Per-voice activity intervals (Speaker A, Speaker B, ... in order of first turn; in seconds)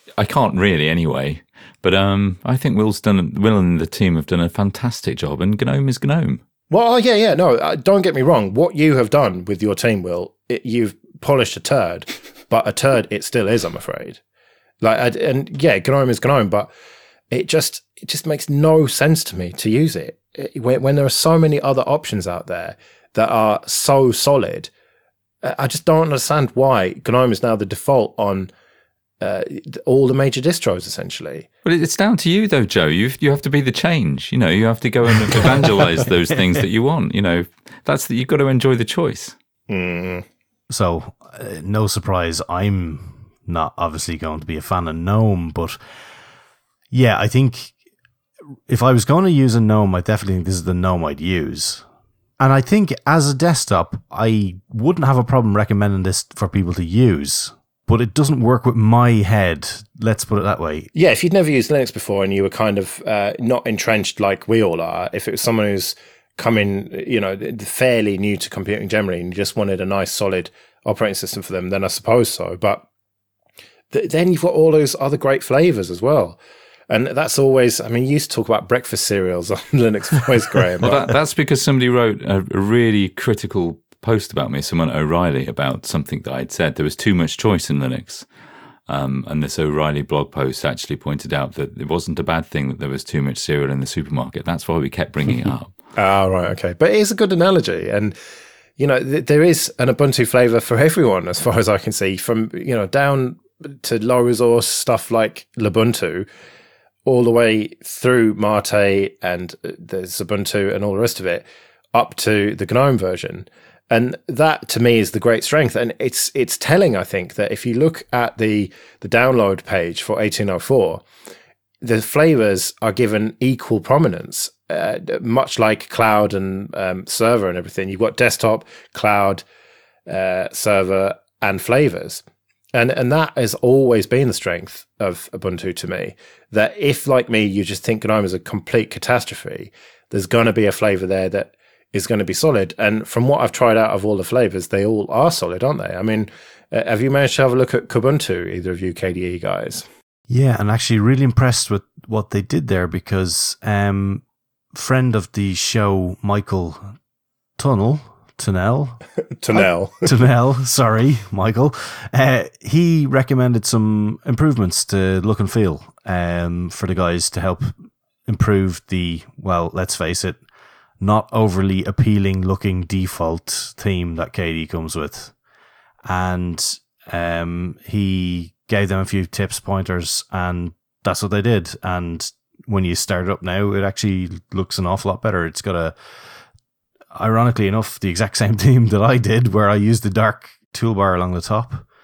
Speaker A: 0.1-6.4, 31.6-39.4, 80.8-88.3, 88.9-95.7
Speaker B: 6.7-14.2, 14.8-16.7, 17.3-24.7, 25.4-28.5, 29.2-31.5, 39.7-40.2, 60.9-72.8, 73.9-76.4, 76.9-81.0, 96.0-98.2, 98.8-106.3, 107.0-121.0, 121.8-129.4, 130.1-132.2, 132.7-149.9, 159.4-160.1
Speaker C: 40.7-45.8, 46.9-47.7, 48.7-51.9, 52.4-60.9, 150.3-157.0, 157.6-159.0, 159.5-167.7, 168.3-170.4, 171.0-175.3, 176.1-186.0, 187.1-191.8